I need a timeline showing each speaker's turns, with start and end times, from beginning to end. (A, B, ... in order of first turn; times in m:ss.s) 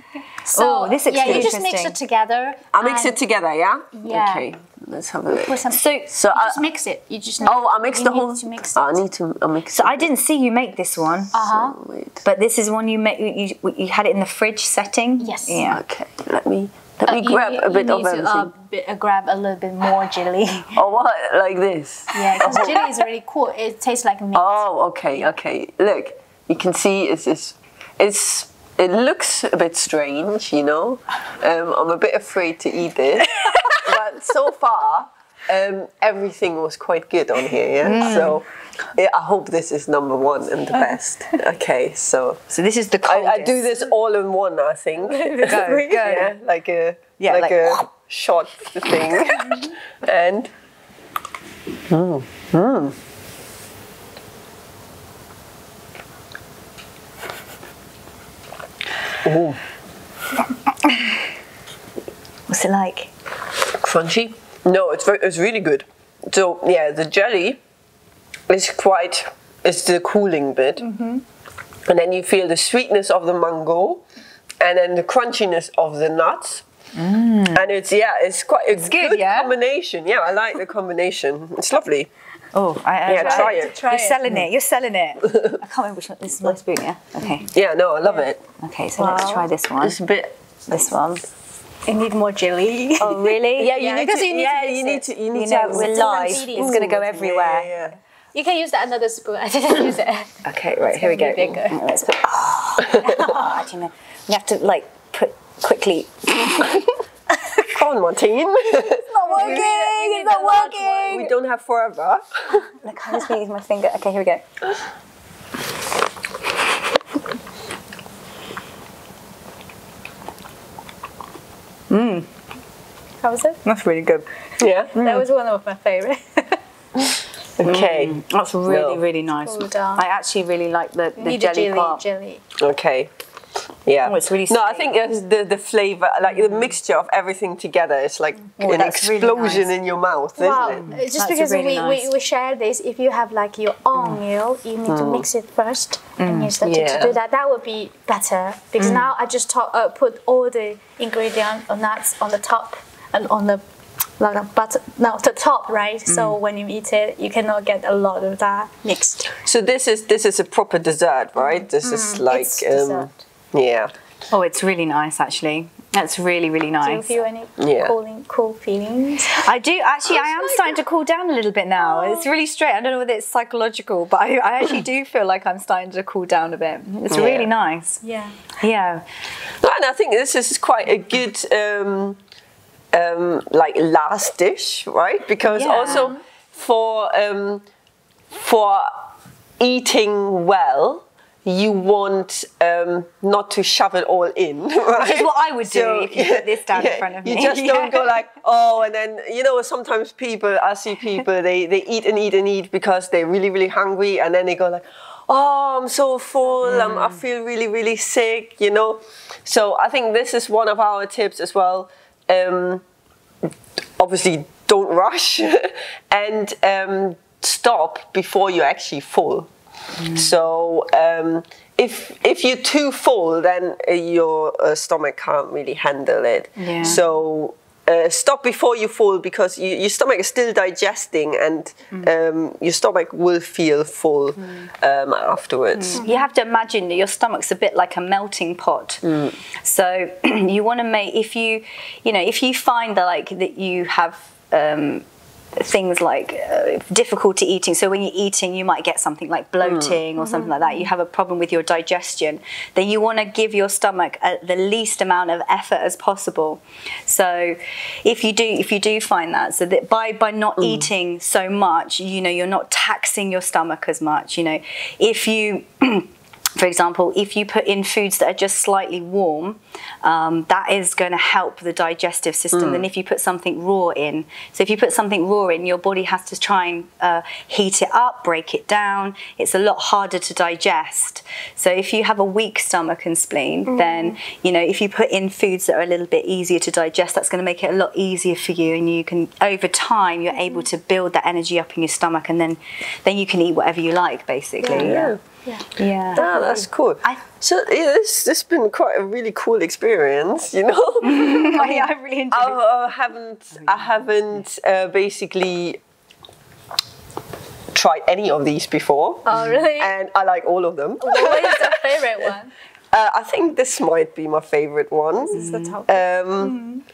0:00.4-0:03.2 A
0:00.5-0:02.0 B
0:01.2-0:01.5 C
0:02.7-0:05.6 C
0:03.9-0:04.5 A
0:05.3-0:09.0 A
0:05.7-0:06.1 B
0:06.1-0:06.6 C
0:07.5-0:10.1 C
0:09.7-0:11.4 B
0:11.3-0:11.8 A
0:11.4-0:12.2 C
0:12.2-0:15.8 B
0:15.2-0:15.6 A
0:15.6-0:18.5 C
0:17.0-0:20.8 A
0:20.8-0:22.8 C
0:22.1-0:24.7 A
0:24.3-0:42.4 C
0:33.4-0:33.9 B
0:37.8-0:38.4 B
0:42.5-0:43.7 B
0:43.1-0:50.5 C
0:45.1-0:46.3 A
0:45.4-0:46.3 B
0:47.2-0:47.9 B
0:49.1-0:49.6 B
0:51.9-0:53.0 C
0:59.2-0:59.6 C
1:00.8-1:01.2 B
1:02.5-1:03.1 B
1:03.8-1:07.6 C
1:08.5-1:10.8 C
1:10.8-1:11.2 A
1:11.9-1:14.0 C
1:14.6-1:16.6 C
1:17.0-1:17.7 B
1:17.5-1:22.1 C
1:18.7-1:19.5 B
1:22.5-1:27.5 B
1:23.1-1:23.7 C
1:23.1-1:24.3 A
1:25.3-1:25.6 C
1:27.5-1:28.4 C
1:28.6-1:30.0 B
1:29.0-1:29.5 A
1:29.8-1:30.4 C
1:30.7-1:31.2 B
1:31.9-1:37.0 A
1:33.0-1:33.8 B
1:33.4-1:38.0 C
1:35.3-1:37.7 B
1:38.3-1:41.8 A
1:40.4-1:46.9 B
1:42.9-1:43.5 A
1:47.7-1:50.3 C
1:49.0-1:51.3 B
1:49.2-1:51.2 A
1:51.1-1:52.7 C
1:52.8-1:54.5 B
2:01.9-2:02.3 B
2:03.2-2:03.6 A
2:03.6-2:04.3 B
2:04.6-2:05.0 C
2:04.9-2:06.6 A
2:05.0-2:05.2 B
2:07.6-2:09.0 C
2:07.6-2:12.0 B
2:09.4-2:10.0 A
2:11.2-2:12.4 A
2:12.6-2:13.1 C
2:13.9-2:21.0 C
2:14.0-2:14.9 B
2:18.6-2:19.7 B
2:20.4-2:33.6 A
2:20.7-2:22.1 B
2:24.9-2:25.3 C
2:26.2-2:26.6 B
2:26.6-2:27.2 C
2:28.8-2:29.1 B
2:34.2-2:39.4 A
2:36.1-2:36.4 B
2:39.4-2:43.9 C
2:41.4-2:43.1 A
2:44.3-2:47.2 B
2:46.8-2:49.4 A
2:47.6-2:47.9 C
2:49.3-2:58.0 B
2:50.1-2:50.8 A
2:51.8-2:52.3 A
2:57.1-2:57.5 C
2:58.0-2:58.4 A
2:58.6-2:59.0 B
2:59.6-3:02.2 C
3:02.9-3:07.6 C
3:05.5-3:06.1 B
3:05.8-3:06.2 A
3:08.3-3:09.0 C
3:09.6-3:32.8 C
3:14.9-3:18.1 B
3:26.6-3:27.2 B
3:34.0-3:39.5 C
3:40.0-3:40.3 B
3:40.1-3:56.0 C
3:46.6-3:47.0 B
3:55.8-4:55.1 B
3:59.0-3:59.4 C
4:09.6-4:10.0 C
4:10.2-4:10.7 A
4:32.5-4:32.8 C
4:43.7-4:44.2 A
4:54.6-4:56.7 A
4:54.7-4:55.2 C
4:55.8-4:56.3 B
4:56.1-5:05.8 C
5:01.0-5:02.6 B
5:03.6-5:04.0 B
5:07.7-5:12.0 C
5:09.2-5:09.9 A
5:11.0-5:12.5 A
5:12.9-5:16.6 C
5:15.2-5:16.8 A
5:15.3-5:15.8 B